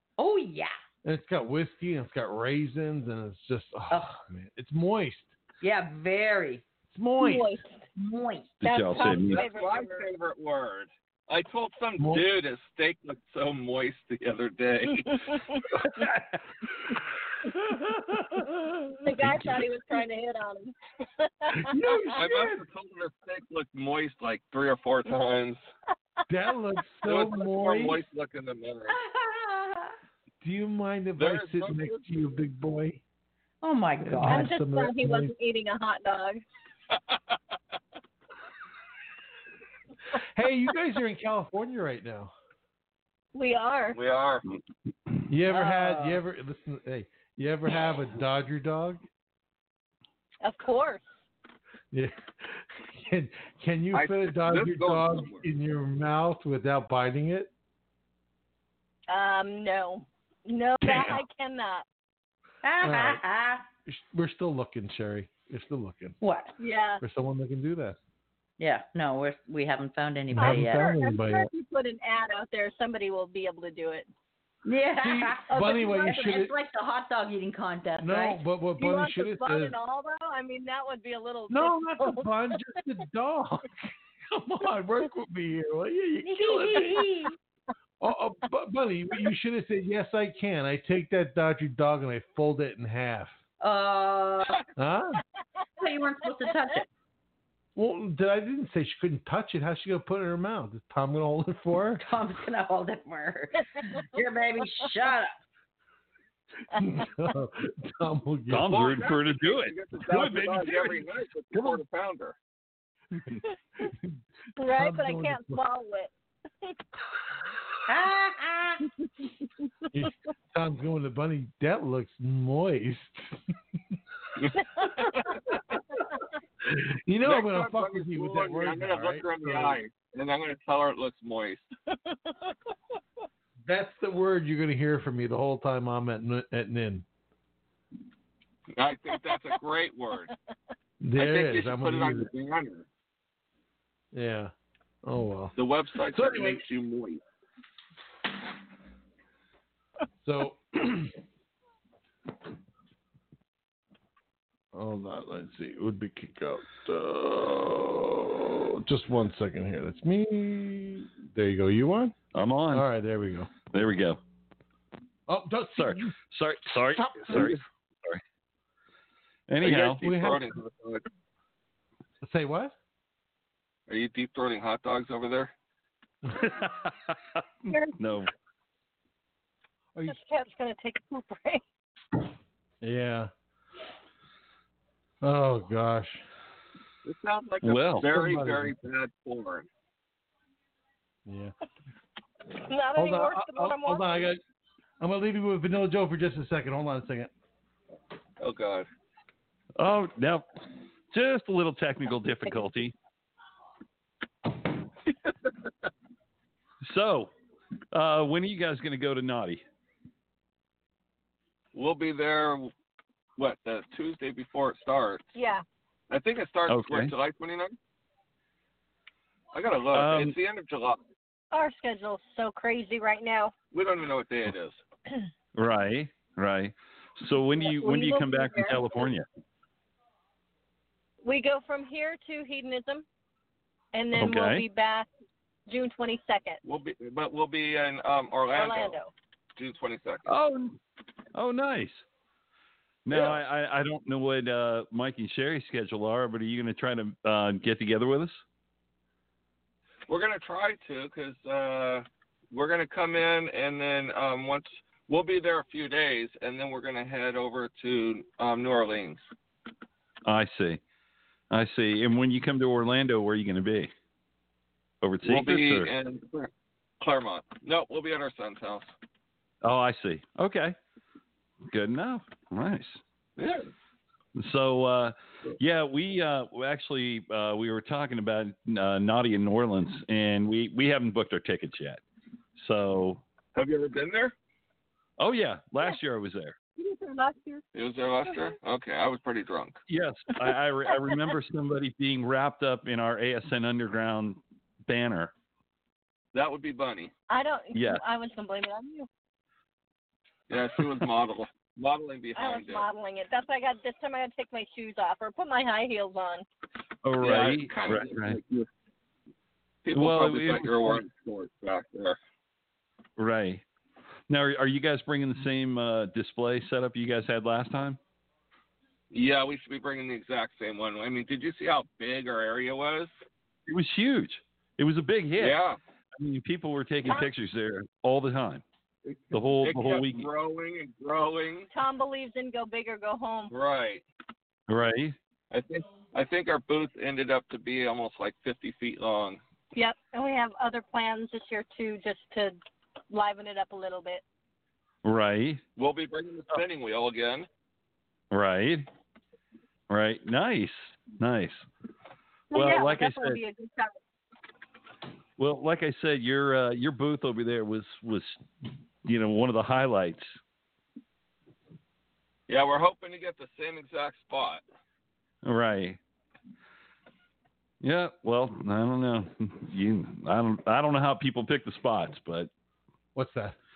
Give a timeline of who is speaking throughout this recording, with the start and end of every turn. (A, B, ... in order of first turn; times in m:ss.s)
0:00.2-0:00.7 A
0:01.0-0:05.3 B
0:03.9-0:04.1 A
0:05.6-0:06.6 A
0:06.9-0:07.6 B
0:07.2-0:07.8 C
0:08.0-0:08.5 A
0:08.6-0:09.5 D
0:08.6-0:10.1 C
0:09.0-0:15.3 E
0:12.0-0:12.3 B
0:15.0-0:15.6 C
0:17.6-0:18.4 B
0:19.0-0:21.7 C
0:19.2-0:19.6 D
0:21.5-0:22.6 B
0:22.1-0:25.6 E
0:26.3-0:28.0 B
0:27.0-0:29.0 E
0:28.9-0:29.9 A
0:30.4-0:33.0 B
0:31.2-0:32.0 E
0:33.6-0:34.5 A
0:34.0-0:35.3 B
0:34.3-0:36.4 C
0:36.9-0:37.3 E
0:40.1-0:42.3 B
0:43.3-0:44.0 C
0:43.9-0:44.4 E
0:45.3-0:49.0 B
0:45.5-0:45.8 A
0:50.4-0:51.0 C
0:51.9-0:57.5 B
0:53.9-0:55.4 E
0:59.1-1:01.8 C
1:00.8-1:01.2 B
1:02.6-1:03.6 A
1:02.8-1:03.2 B
1:03.9-1:06.2 B
1:06.2-1:06.5 A
1:06.6-1:07.0 C
1:07.0-1:08.0 B
1:08.6-1:10.9 A
1:10.3-1:11.5 B
1:10.4-1:14.1 C
1:14.6-1:18.4 A
1:15.0-1:16.5 B
1:15.5-1:16.5 C
1:18.0-1:19.7 B
1:18.8-1:22.6 C
1:21.5-1:27.1 B
1:26.2-1:27.3 A
1:28.0-1:33.4 B
1:33.6-1:34.6 A
1:34.8-1:35.2 B
1:35.8-1:36.9 A
1:37.8-1:42.0 B
1:42.0-1:45.4 A
1:46.7-1:48.8 B
1:48.5-1:51.8 D
1:48.6-1:52.4 E
1:53.1-1:54.1 B
1:54.6-1:56.1 C
1:54.7-1:55.6 B
1:57.9-1:58.8 A
1:59.9-2:03.4 B
2:04.4-2:05.4 E
2:06.6-2:09.8 B
2:07.2-2:11.7 E
2:13.6-2:17.0 B
2:18.7-2:20.3 E
2:21.0-2:22.3 B
2:21.2-2:22.8 E
2:24.1-2:24.5 B
2:25.0-2:26.6 B
2:25.6-2:27.2 E
2:30.2-2:31.1 B
2:34.7-2:42.1 B
2:42.3-2:42.9 D
2:42.7-2:43.5 B
2:43.7-2:44.2 D
2:45.3-2:46.1 B
2:45.8-2:48.2 D
2:46.7-2:47.6 B
2:49.5-2:50.0 D
2:49.6-2:51.0 E
2:50.0-2:50.5 B
2:52.2-2:52.7 B
2:53.9-2:55.5 E
2:56.4-2:57.4 D
2:57.7-2:58.0 C
2:57.9-2:58.3 D
3:00.0-3:01.6 C
3:02.8-3:03.3 B
3:05.2-3:06.2 B
3:07.0-3:09.7 E
3:07.6-3:08.1 D
3:08.0-3:08.7 B
3:11.2-3:11.5 B
3:12.6-3:14.3 C
3:13.0-3:14.4 B
3:15.0-3:17.3 B
3:18.4-3:18.9 E
3:19.8-3:20.4 D
3:21.1-3:22.9 D
3:26.8-3:27.3 D
3:27.9-3:29.6 D
3:31.7-3:32.7 E
3:33.4-3:35.3 E
3:35.3-3:35.6 C
3:36.1-3:37.7 E
3:36.7-3:37.1 D
3:39.5-3:41.0 E
3:39.9-3:40.4 D
3:41.5-3:43.5 C
3:43.7-3:44.8 E
3:45.5-3:49.2 D
3:47.6-3:49.0 C
3:51.2-3:53.0 C
3:53.9-3:55.1 C
3:54.1-3:54.6 D
3:55.7-3:56.6 C
3:56.6-3:59.0 E
3:58.5-3:59.1 C
3:59.6-4:00.3 E
4:00.2-4:00.8 D
4:01.3-4:02.0 D
4:03.0-4:08.4 D
4:03.1-4:03.4 E
4:10.1-4:19.2 E
4:20.2-4:20.8 D
4:21.5-4:23.9 D
4:25.0-4:25.9 D
4:25.2-4:26.5 E
4:27.0-4:28.9 E
4:29.6-4:30.8 D
4:31.7-4:33.0 D
4:33.4-4:33.7 E
4:34.3-4:42.0 D
4:42.6-4:43.2 D
4:43.5-4:44.3 E
4:45.2-4:46.6 D
4:46.8-4:47.6 C
4:47.7-4:49.8 E
4:49.9-4:55.3 D
4:56.3-4:57.1 E
4:57.3-4:59.1 C
4:57.7-4:58.0 D
5:00.5-5:02.9 E
5:00.8-5:01.0 D
5:02.4-5:06.4 C
5:07.0-5:08.4 D
5:07.2-5:08.7 E
5:09.8-5:12.2 E
5:09.9-5:11.0 D
5:13.2-5:13.6 D
5:14.3-5:18.0 D
5:19.1-5:23.1 E
5:23.7-5:25.6 D
5:25.4-5:25.8 E
5:26.2-5:28.6 D
5:29.0-5:31.7 E
5:29.3-5:30.3 D
5:31.7-5:33.5 C
5:33.5-5:34.0 E
5:34.7-5:35.2 D
5:35.5-5:39.4 E
5:39.7-5:42.6 C
5:43.1-5:44.2 C
5:45.0-5:45.6 D
5:45.8-5:47.5 E
5:48.3-5:48.9 D
5:49.9-5:51.7 D
5:52.5-5:53.4 D
5:52.5-5:54.0 C
5:55.4-5:58.4 D
5:59.0-6:00.4 D
6:02.5-6:04.6 E
6:05.4-6:06.0 D
6:07.8-6:12.5 D
6:13.1-6:13.6 B